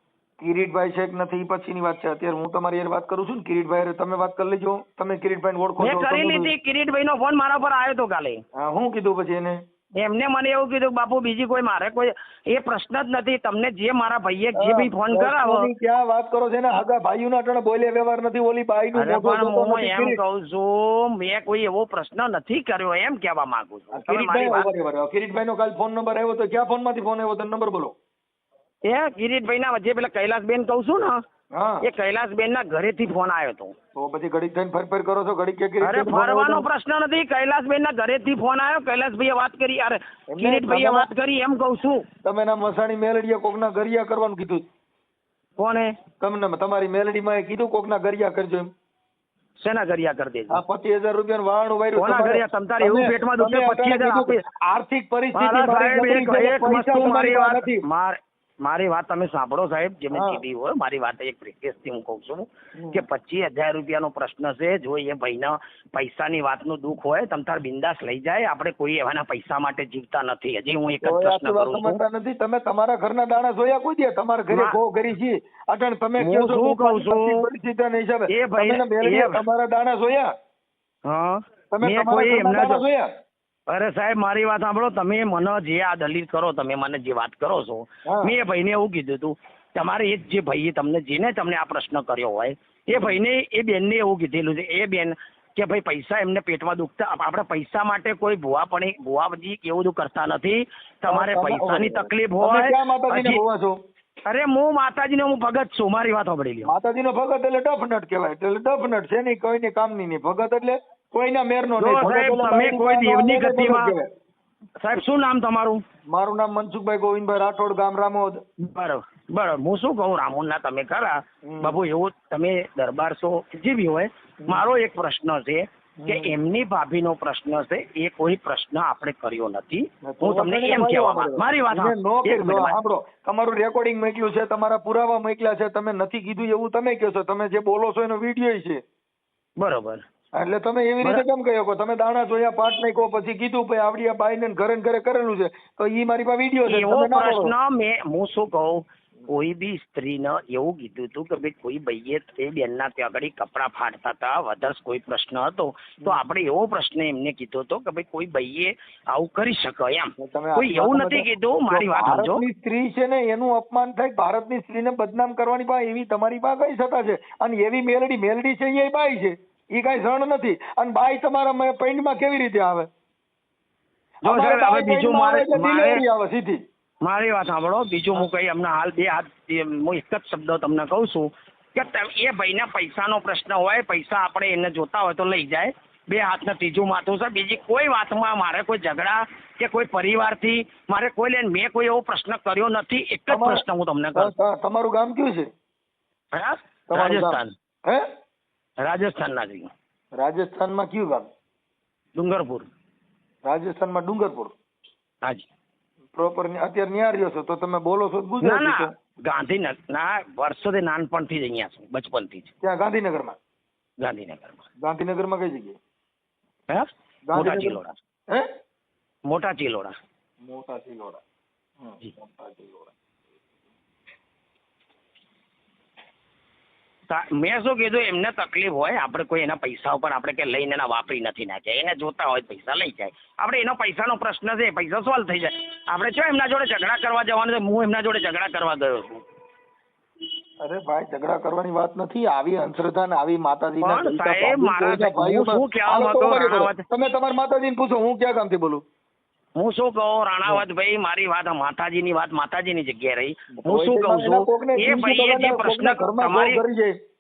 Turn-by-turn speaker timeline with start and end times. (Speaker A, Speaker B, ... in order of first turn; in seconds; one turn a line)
Speaker A: 0.4-6.5
Speaker B: 5.8-8.4
Speaker A: 8.6-9.6
Speaker B: 10.0-15.7
Speaker A: 14.6-20.2
Speaker B: 18.9-24.7
Speaker A: 23.9-27.9
Speaker B: 28.8-31.2
Speaker A: 31.5-31.9
Speaker B: 31.8-33.7
Speaker A: 34.0-36.6
Speaker B: 35.8-42.0
Speaker A: 40.3-41.1
Speaker A: 42.2-44.6
Speaker B: 45.6-45.9
Speaker A: 46.2-48.7
Speaker B: 49.6-50.6
Speaker A: 50.5-57.8
Speaker B: 52.0-54.4
Speaker B: 55.3-72.0
Speaker A: 60.1-60.4
Speaker A: 62.8-63.0
Speaker A: 71.0-80.3
Speaker B: 74.5-74.8
Speaker B: 76.2-77.5
Speaker B: 78.3-79.4
Speaker B: 81.0-82.8
Speaker A: 81.7-83.1
Speaker B: 83.7-103.4
Speaker A: 88.0-88.3
Speaker A: 92.9-93.2
Speaker A: 101.1-103.8
Speaker B: 104.2-106.7
Speaker A: 106.6-114.0
Speaker B: 111.8-113.9
Speaker B: 114.8-115.8
Speaker A: 116.1-118.4
Speaker B: 118.6-132.8
Speaker A: 121.5-121.8
Speaker A: 126.0-126.3
Speaker A: 130.0-138.8
Speaker B: 139.6-140.0
Speaker A: 140.4-147.5
Speaker B: 146.7-162.4
Speaker A: 160.2-172.9
Speaker B: 174.2-176.0
Speaker A: 174.2-176.6
Speaker B: 177.0-194.3
Speaker A: 193.3-193.6
Speaker A: 194.1-195.5
Speaker B: 196.3-197.5
Speaker A: 196.9-198.0
Speaker B: 198.8-199.7
Speaker A: 200.2-201.3
Speaker B: 202.2-202.7
Speaker A: 203.4-204.5
Speaker A: 206.1-208.9
Speaker B: 208.4-212.5
Speaker A: 212.6-213.4
Speaker B: 214.0-214.6
Speaker A: 214.8-215.8
Speaker B: 216.7-217.9
Speaker A: 217.3-218.5
Speaker B: 219.3-219.9
Speaker A: 220.4-221.2
Speaker A: 221.8-222.9
Speaker B: 227.1-239.2
Speaker A: 240.6-248.8
Speaker B: 243.8-246.8
Speaker B: 249.6-256.6
Speaker A: 253.6-256.9